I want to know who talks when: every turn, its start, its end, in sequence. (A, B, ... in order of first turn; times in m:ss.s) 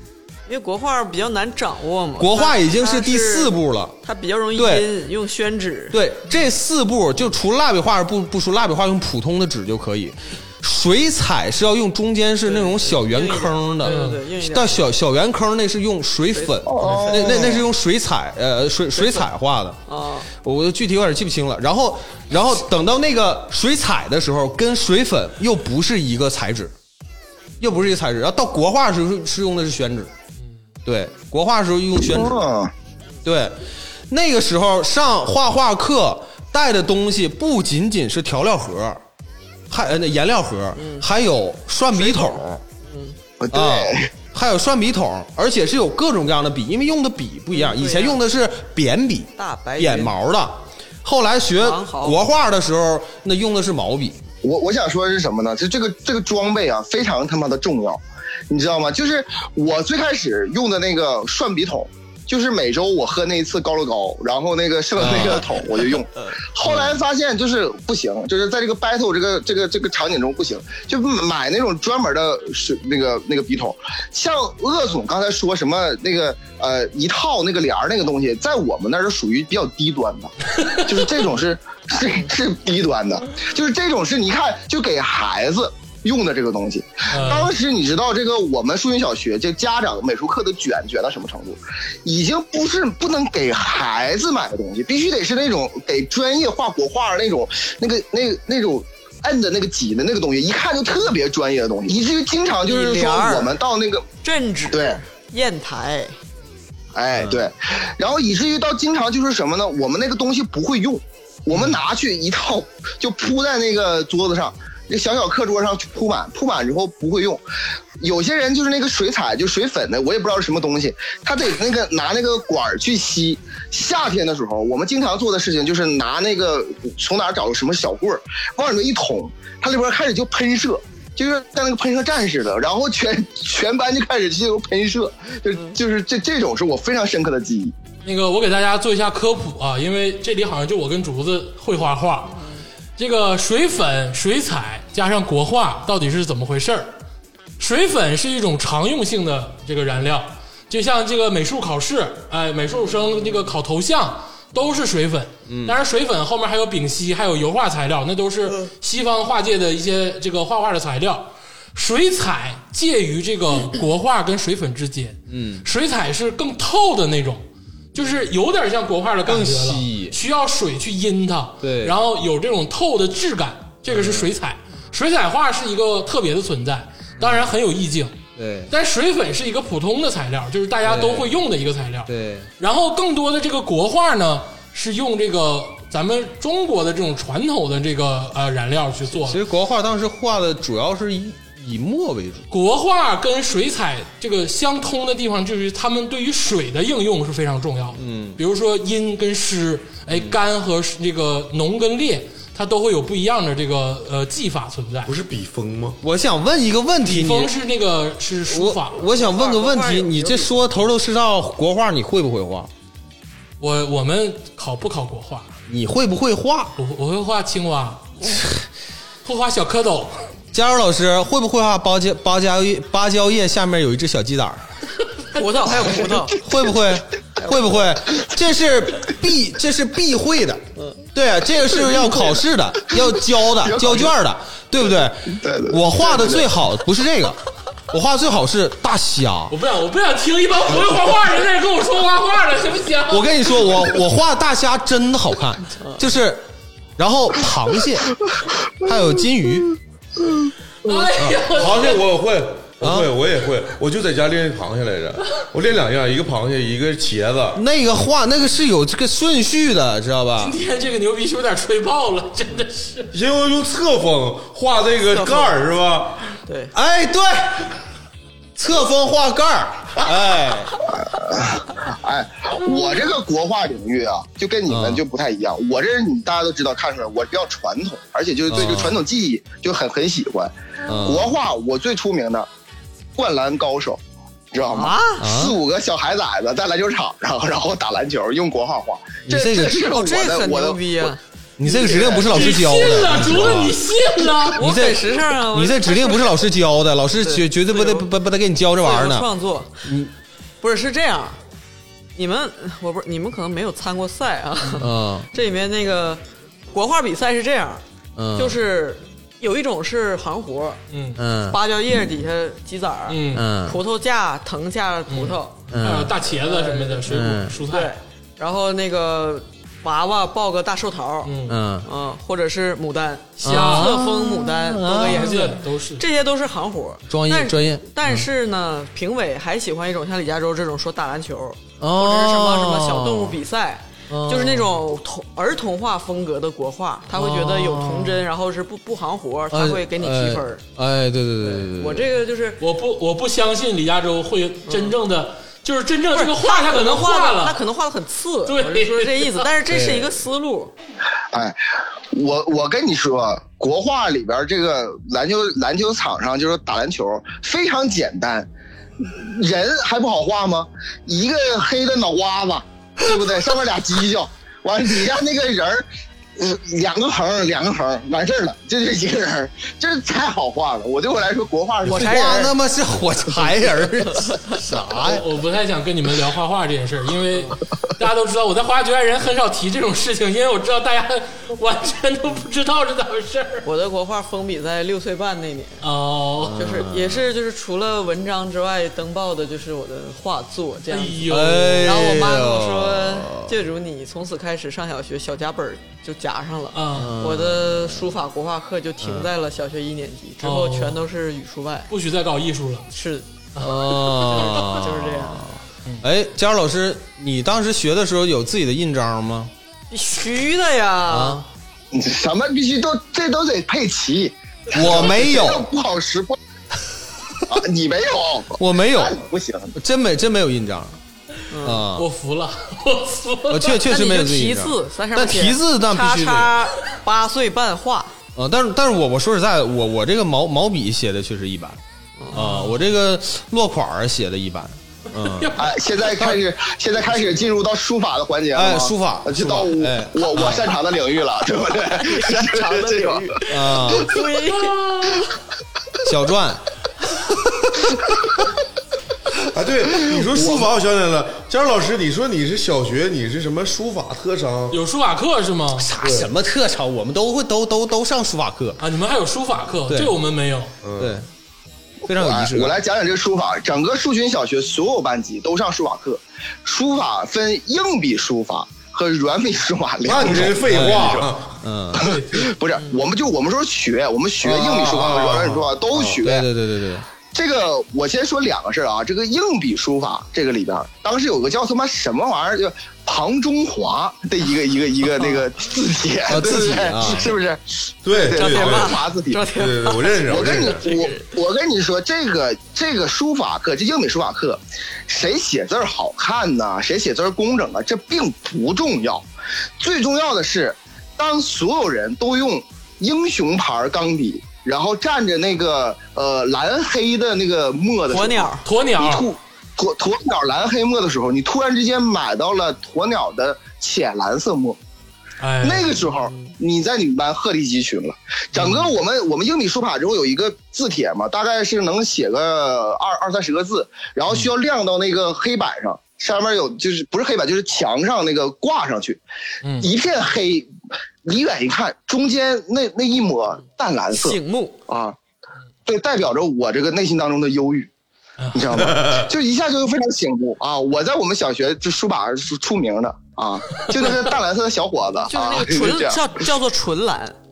0:00.5-0:06.0 A
0:02.2-0:04.0 B
0:04.5-0:04.9 B
0:05.9-0:19.8 B
0:12.4-0:14.8 A
0:13.8-0:14.2 C
0:16.3-0:17.6 A
0:16.6-0:17.6 D
0:18.9-0:19.3 A
0:19.9-0:20.3 A
0:20.3-0:26.7 B
0:27.6-0:30.1 B
0:30.9-0:32.4 B
0:32.0-0:32.7 D
0:33.2-0:33.6 B
0:34.1-0:39.0 B
0:39.7-0:42.6 B
0:40.8-0:41.1 A
0:41.9-0:43.2 A
0:43.4-0:44.1 D
0:43.5-0:54.2 B
0:47.5-0:48.2 A
0:49.4-0:50.1 A
0:51.6-0:52.2 A
0:54.4-1:44.1 D
1:05.0-1:05.4 B
1:06.7-1:06.9 B
1:27.1-1:27.5 C
1:42.6-1:43.6 A
1:44.2-1:46.2 A
1:44.7-1:45.0 D
1:46.9-1:57.4 D
1:58.0-2:17.7 D
2:18.0-2:22.4 C
2:22.3-2:22.6 A
2:23.0-2:26.9 C
2:27.6-2:47.4 C
2:35.5-2:35.8 B
2:45.3-2:45.7 B
2:47.9-2:58.2 C
2:49.2-2:50.2 B
2:51.6-2:52.0 B
2:53.9-2:54.3 B
2:57.2-2:57.5 B
2:58.4-2:58.7 B
2:58.7-3:09.4 C
3:00.8-3:01.3 B
3:02.1-3:02.5 B
3:09.1-3:12.5 B
3:12.5-3:25.2 C
3:18.0-3:18.4 B
3:20.1-3:20.4 B
3:25.0-3:26.0 E
3:26.0-3:27.5 B
3:27.0-3:29.1 C
3:28.5-3:32.7 B
3:29.1-3:30.6 A
3:33.6-3:35.5 C
3:35.7-3:36.8 B
3:36.8-3:38.4 C
3:39.2-3:40.3 C
3:40.5-3:44.6 B
3:45.3-3:46.4 A
3:45.8-3:46.2 D
3:46.4-3:50.6 B
3:51.1-3:57.4 B
3:51.6-3:54.2 D
3:55.3-3:56.5 D
3:57.9-3:59.5 B
3:59.5-4:03.7 C
4:03.1-4:06.4 B
4:07.0-4:08.1 B
4:08.8-4:09.8 B
4:10.8-4:12.1 C
4:11.1-4:17.6 E
4:12.8-4:13.1 B
4:17.5-4:20.6 B
4:20.4-4:23.1 C
4:23.1-4:26.2 E
4:25.1-4:25.6 A
4:26.5-4:26.7 A
4:26.7-4:27.7 B
4:28.6-4:30.7 B
4:30.9-4:42.5 D
4:34.7-4:35.0 B
4:38.5-4:39.0 B
4:40.9-4:41.3 B
4:43.2-4:44.0 D
4:44.5-4:51.1 D
4:44.7-4:45.2 A
4:45.2-4:45.6 B
4:49.3-4:49.8 B
4:49.7-4:51.2 A
4:51.6-4:53.8 B
4:51.6-4:53.2 D
4:52.1-4:54.6 C
4:54.6-4:56.4 A
4:54.6-4:59.3 B
4:57.2-4:58.1 A
4:58.8-4:59.8 A
4:59.8-5:00.1 B
5:00.6-5:01.4 A
5:02.2-5:07.8 A
5:04.8-5:05.3 B
5:08.2-5:08.6 B
5:08.4-5:10.8 A
5:10.9-5:11.2 C
5:11.2-5:11.6 B
5:11.5-5:15.6 A
5:13.1-5:13.5 C
5:13.3-5:13.8 B
5:15.1-5:17.9 C
5:15.7-5:16.2 B
5:16.2-5:17.1 A
5:17.1-5:17.6 B
5:17.7-5:40.6 A
5:21.2-5:21.6 C
5:21.5-5:21.9 B
5:23.4-5:25.6 B
5:23.5-5:24.0 C
5:25.0-5:26.0 C
5:27.1-5:28.3 B
5:31.8-5:33.4 B
5:34.1-5:34.8 B
5:37.1-5:38.3 B
5:39.5-5:42.1 B
5:41.4-5:42.6 A
5:42.6-5:47.6 C
5:44.7-5:45.0 A
5:46.1-5:50.7 A
5:48.5-5:49.5 C
5:49.7-5:50.1 B
5:51.3-5:51.6 D
5:52.1-5:58.5 D
5:59.0-6:12.5 D
6:11.8-6:15.2 B
6:11.9-6:12.5 A
6:15.0-6:23.7 C
6:23.6-6:25.8 A
6:25.8-6:26.6 C
6:26.4-6:27.3 B
6:26.6-6:41.9 A
6:30.9-6:32.1 C
6:31.3-6:33.6 B
6:36.7-6:37.2 C
6:36.9-6:38.1 B
6:39.0-6:39.3 B
6:40.4-6:41.0 C
6:41.9-6:42.9 C
6:42.9-6:43.3 A
6:43.6-6:44.9 C
6:43.6-6:49.5 B
6:44.7-6:45.4 A
6:49.9-6:51.4 A
6:51.1-6:51.4 B
6:51.9-6:56.4 D
6:54.7-6:55.7 B
6:57.5-6:59.8 D
6:58.6-6:59.2 B
6:59.8-7:01.0 B
7:01.5-7:01.8 A
7:01.6-7:02.1 B
7:02.0-7:03.8 C
7:03.5-7:06.6 B
7:03.7-7:08.1 A
7:08.4-7:11.8 B
7:12.2-7:12.5 A
7:12.3-7:12.8 C
7:12.3-7:15.6 B
7:15.2-7:16.4 C
7:15.6-7:23.3 D
7:18.6-7:20.8 B
7:22.0-7:24.8 A
7:23.5-7:24.1 B
7:24.2-7:25.3 C
7:26.1-7:26.6 B
7:29.5-7:34.8 E
7:30.3-7:30.6 D
7:34.7-7:35.9 C
7:35.8-7:38.8 B
7:36.0-7:36.3 E
7:38.8-7:40.7 C
7:39.9-7:40.1 B
7:40.8-7:41.2 E
7:41.0-7:41.3 B
7:42.1-7:42.8 B
7:42.1-7:51.3 D
7:50.0-7:51.6 E
7:50.7-7:51.0 B
7:51.6-7:52.1 B
7:52.0-7:56.5 D
7:52.0-7:52.6 C
7:54.4-7:56.2 E
7:56.1-7:57.0 B
7:57.3-8:09.5 D
8:06.3-8:07.4 B
8:08.0-8:10.9 E
8:08.3-8:11.3 A
8:10.2-8:19.3 D
8:19.8-8:34.8 D
8:28.1-8:28.6 A
8:28.6-8:29.3 C
8:35.4-8:36.1 C
8:35.6-8:49.2 D
8:38.6-8:38.9 C
8:49.6-8:49.9 C
8:49.8-8:50.7 D
8:51.2-8:55.2 D
8:54.1-8:54.8 A
8:55.9-8:57.9 D
8:58.4-8:59.2 C
8:58.5-9:06.2 D
9:05.3-9:07.4 A